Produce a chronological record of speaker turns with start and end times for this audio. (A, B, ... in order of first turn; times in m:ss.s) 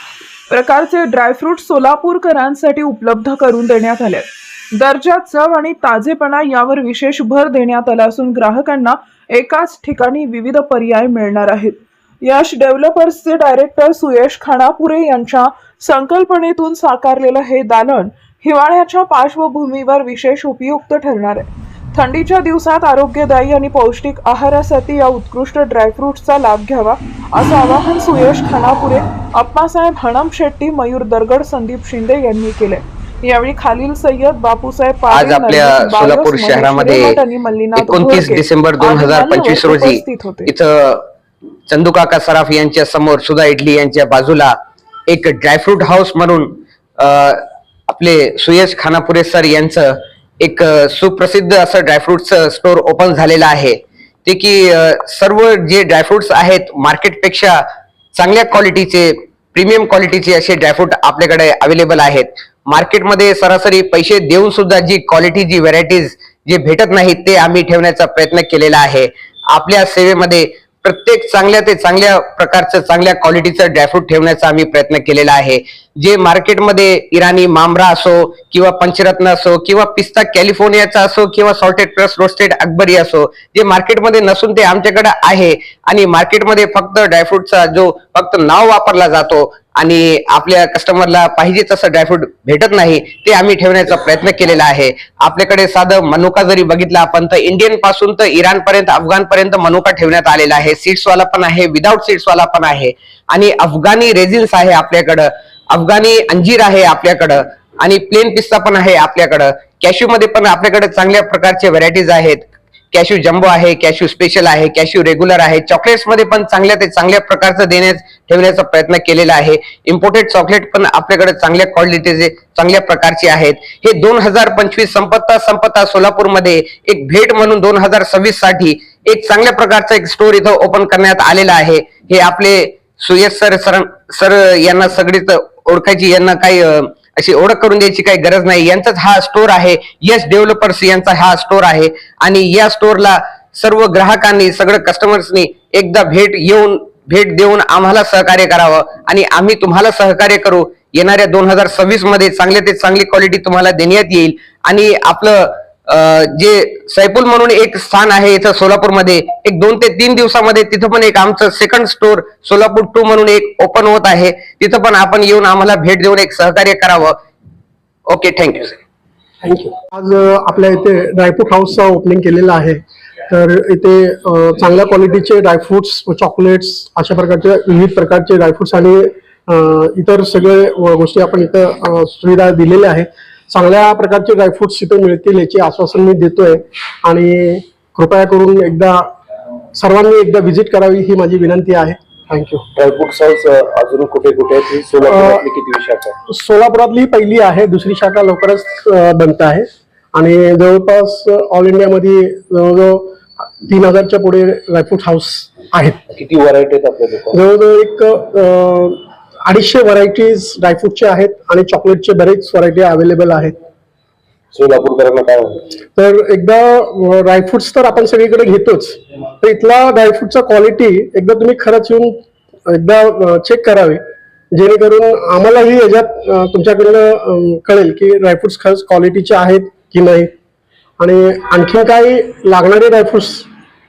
0:00.5-0:40.5 A
0:35.1-0:37.2 B
0:37.8-0:41.0 B
0:41.7-0:44.5 B
0:45.1-0:57.6 B
0:58.1-2:47.2 B
2:48.1-2:48.8 B
2:49.4-3:09.1 C
3:09.7-3:12.6 C
3:12.7-3:16.2 D
3:15.1-3:15.4 C
3:16.3-3:26.0 C
3:26.1-3:27.4 D
3:27.3-3:33.5 C
3:34.5-3:35.7 D
3:35.9-3:44.0 C
3:44.5-3:50.3 C
3:51.0-3:53.5 C